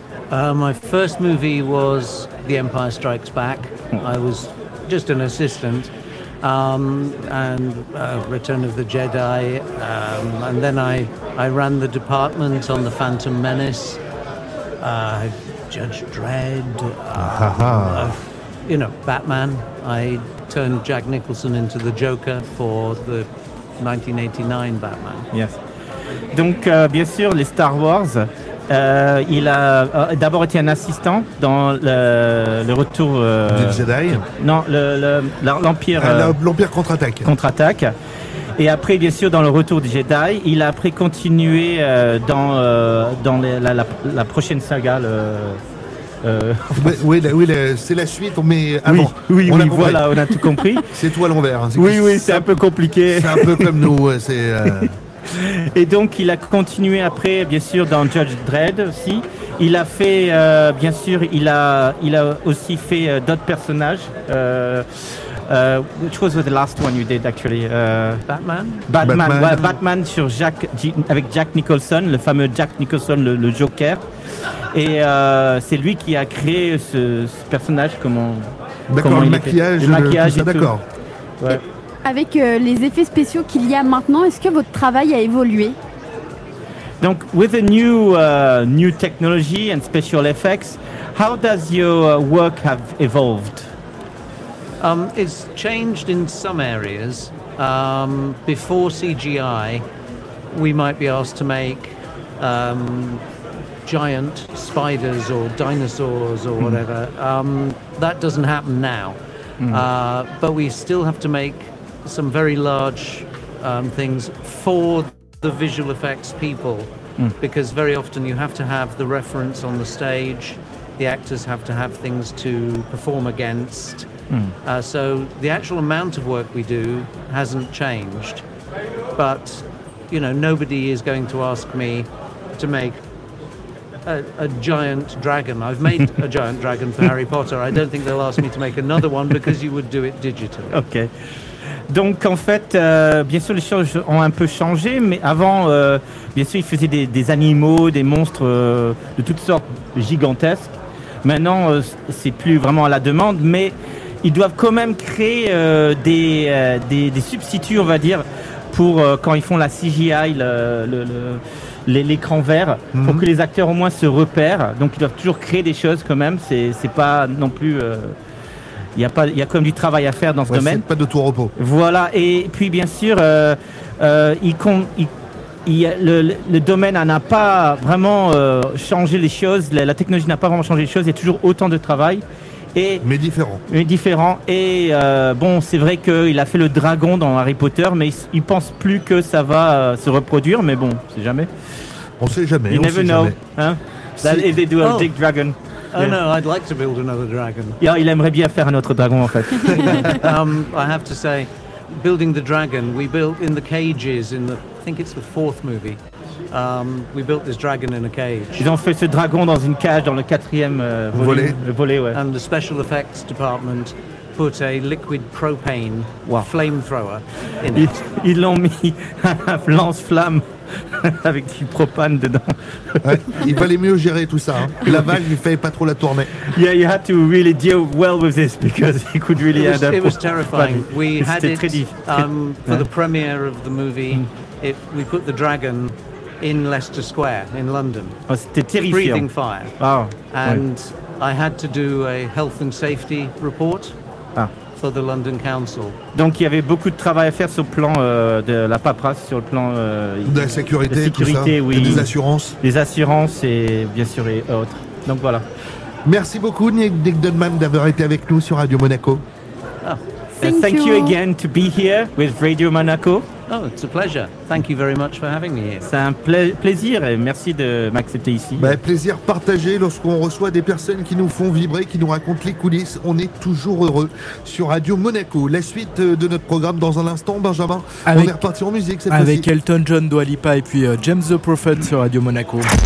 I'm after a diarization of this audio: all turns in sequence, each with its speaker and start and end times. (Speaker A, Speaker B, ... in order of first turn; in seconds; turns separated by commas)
Speaker A: 0.3-5.9, Speaker A: 6.4-14.0, Speaker A: 14.8-25.3, Speaker B: 17.1-18.1, Speaker C: 25.3-25.6, Speaker C: 26.3-36.4, Speaker B: 33.5-34.3, Speaker B: 36.0-37.3, Speaker C: 37.2-37.9, Speaker C: 38.6-45.6, Speaker C: 46.2-47.0, Speaker B: 46.7-55.0, Speaker C: 48.9-50.9, Speaker C: 51.8-53.9, Speaker C: 54.8-68.2, Speaker A: 68.3-68.9, Speaker C: 68.9-74.0, Speaker B: 69.0-69.6, Speaker C: 74.7-80.7, Speaker B: 78.9-80.8, Speaker D: 82.0-85.8, Speaker C: 87.0-93.7, Speaker A: 94.8-99.8, Speaker A: 100.5-103.2, Speaker A: 103.8-124.1, Speaker A: 124.6-128.4, Speaker A: 129.2-133.0, Speaker A: 134.1-140.8, Speaker C: 140.7-141.1, Speaker C: 141.9-168.2, Speaker B: 162.9-163.3, Speaker C: 169.0-170.8, Speaker B: 170.5-171.5, Speaker C: 171.6-175.1, Speaker C: 175.7-182.2, Speaker C: 182.8-183.1, Speaker B: 183.0-183.6, Speaker C: 183.7-191.5, Speaker B: 192.2-193.4, Speaker C: 192.7-196.2, Speaker B: 194.2-194.5, Speaker A: 194.8-195.1, Speaker A: 195.9-197.8, Speaker C: 197.8-200.2, Speaker A: 200.0-206.0, Speaker A: 206.5-208.7, Speaker C: 208.6-212.2, Speaker B: 211.1-211.6, Speaker A: 212.1-217.9, Speaker C: 217.7-223.4, Speaker B: 223.0-226.4, Speaker C: 224.8-225.2, Speaker C: 226.4-232.9, Speaker A: 229.5-238.2, Speaker C: 238.3-239.3, Speaker A: 238.8-239.8, Speaker C: 239.8-240.6, Speaker A: 240.3-243.9, Speaker A: 244.8-246.0, Speaker C: 246.1-252.1, Speaker B: 250.3-252.6, Speaker C: 252.6-255.4, Speaker B: 256.1-259.2, Speaker C: 260.4-263.3, Speaker D: 260.4-261.2, Speaker A: 263.5-265.9, Speaker C: 265.9-268.8, Speaker B: 268.6-279.5, Speaker E: 278.1-278.3, Speaker E: 279.1-282.7